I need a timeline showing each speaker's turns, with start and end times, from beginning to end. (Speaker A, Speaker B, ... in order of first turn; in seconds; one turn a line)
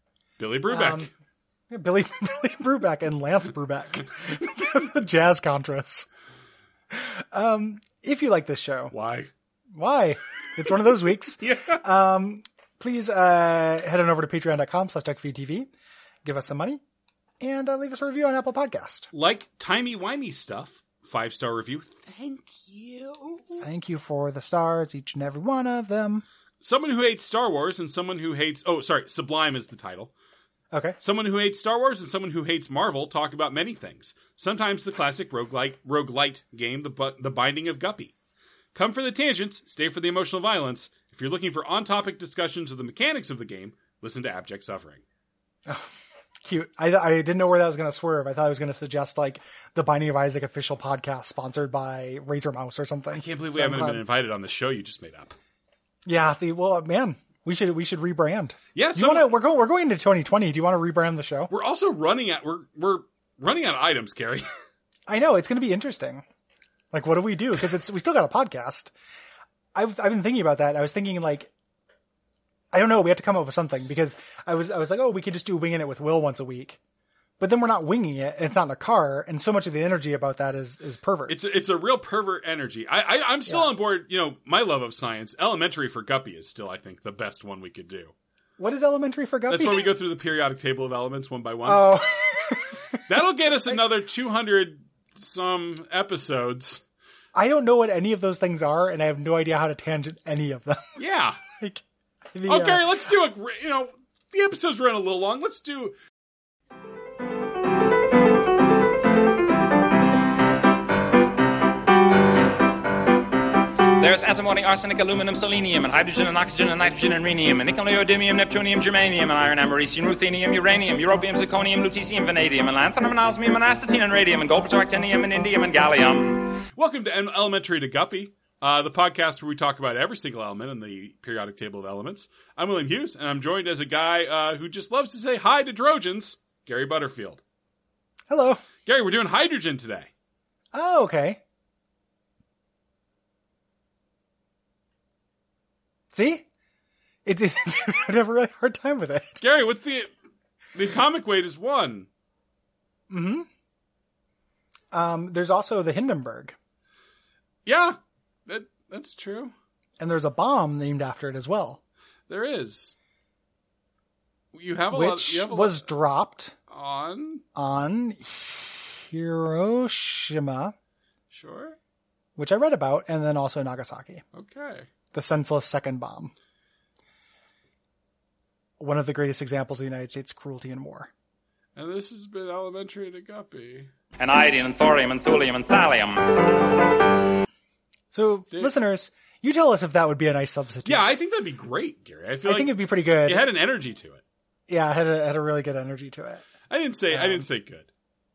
Speaker A: 0.4-1.1
Speaker B: 0.7-1.1
Speaker B: 1.7-6.1
Speaker B: 6.9-8.9
Speaker A: 8.9-9.3
Speaker B: 9.7-15.7
Speaker A: 11.4-11.8
Speaker B: 16.2-16.8
Speaker B: 17.4-19.1
Speaker A: 19.1-23.6
Speaker B: 23.6-26.2
Speaker A: 26.6-30.1
Speaker B: 30.7-31.0
Speaker A: 31.0-38.1
Speaker A: 38.7-45.0
Speaker B: 46.4-54.0
Speaker A: 53.1-55.3
Speaker B: 56.0-61.5
Speaker A: 58.7-59.3
Speaker A: 61.5-64.5
Speaker B: 65.1-66.2
Speaker B: 66.9-68.9
Speaker B: 69.7-71.5
Speaker B: 72.7-76.8
Speaker B: 77.4-81.6
Speaker A: 81.3-88.1
Speaker B: 88.6-89.9
Speaker A: 89.5-92.0
Speaker B: 91.6-93.0
Speaker A: 93.1-96.8
Speaker B: 97.3-101.0
Speaker A: 101.0-101.4
Speaker B: 101.5-102.9
Speaker A: 102.5-106.0
Speaker C: 114.0-126.6
Speaker A: 126.7-137.4
Speaker B: 138.3-138.6
Speaker A: 138.8-140.1
Speaker B: 140.7-141.4
Speaker B: 146.1-146.4
Speaker B: 147.2-149.4
Speaker A: 149.4-150.1
Speaker A: 150.7-152.1
Speaker B: 153.1-153.5
Speaker B: 154.9-156.6
Speaker A: 157.7-159.5
Speaker B: 160.0-161.8
Speaker A: 162.3-162.9
Speaker A: 164.5-165.8
Speaker B: 164.9-166.5
Speaker A: 166.7-167.4
Speaker B: 167.5-170.7
Speaker A: 171.3-171.8
Speaker B: 172.3-174.2
Speaker A: 174.3-174.9
Speaker B: 175.1-176.3
Speaker B: 178.8-181.1
Speaker A: 181.8-183.9
Speaker C: 184.2-186.3
Speaker B: 188.1-191.1
Speaker A: 190.8-194.2
Speaker B: 192.4-193.5
Speaker B: 194.7-196.4
Speaker A: 196.7-197.9
Speaker B: 197.1-197.5